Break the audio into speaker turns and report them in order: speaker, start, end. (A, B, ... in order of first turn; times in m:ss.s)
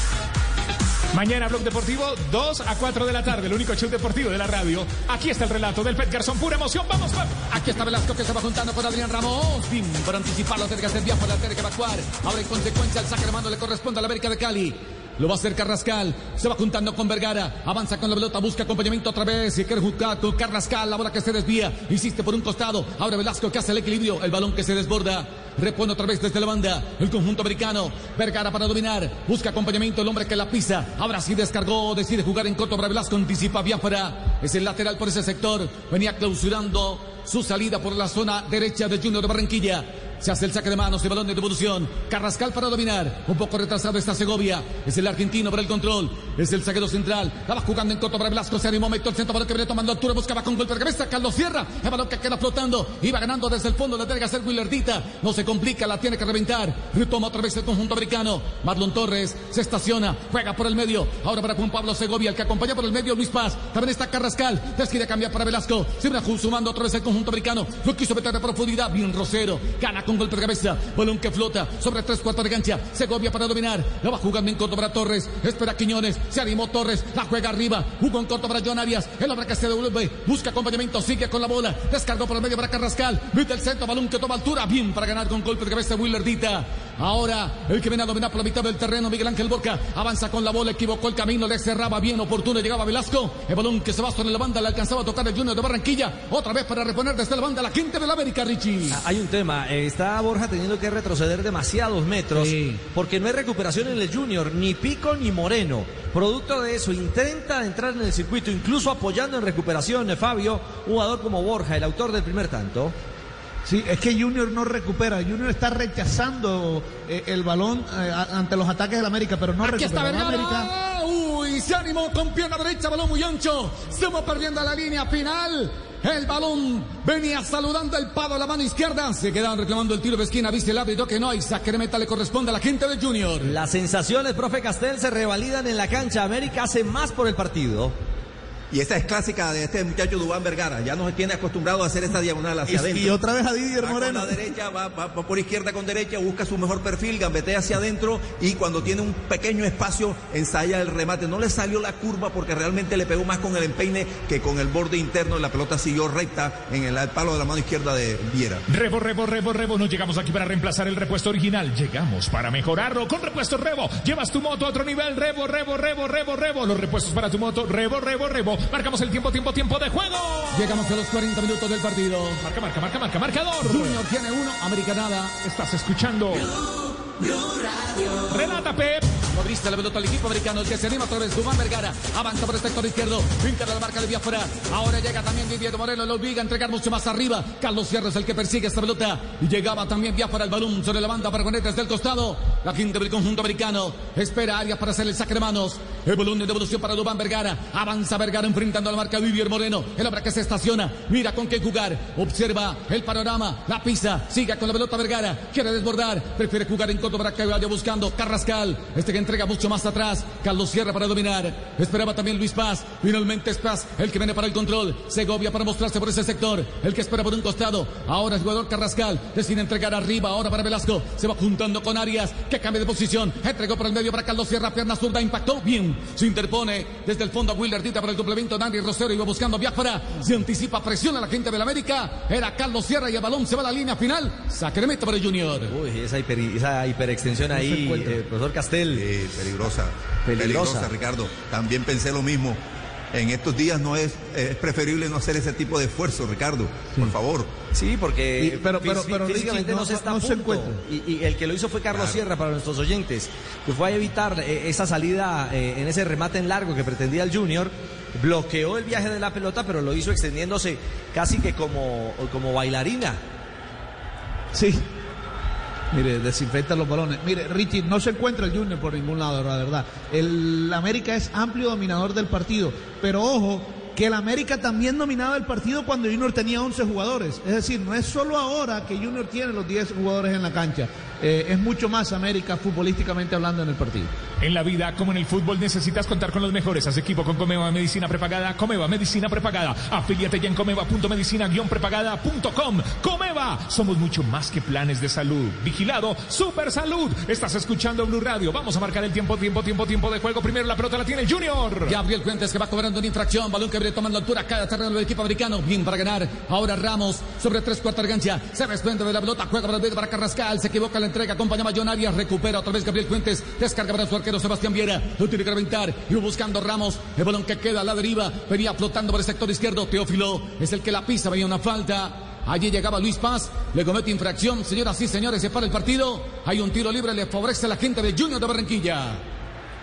0:01.1-0:07.5 A
0:07.5-1:39.0 B
1:38.9-1:52.9 C
1:42.3-1:42.8 D
1:53.6-2:00.7 D
1:59.6-2:13.5 B
2:13.4-2:17.9 C
2:18.7-2:23.2 E
2:22.7-2:24.4 D
2:23.8-2:38.6 E
2:38.7-2:50.9 A
2:50.5-2:52.4 B
2:52.4-2:54.0 A
2:53.6-2:55.3 B
2:55.4-2:56.5 A
2:58.2-2:59.1 A
2:59.3-3:55.7 B
3:55.7-3:59.0 C
3:57.4-3:58.2 D
3:58.9-4:02.6 E
4:00.2-4:00.9 C
4:03.1-4:07.5 E
4:07.7-4:23.2 C
4:08.4-4:10.8 D
4:11.9-4:12.2 E
4:24.5-4:24.9 D
4:25.9-4:44.1 D
4:44.4-5:02.0 A
5:01.8-5:29.2 B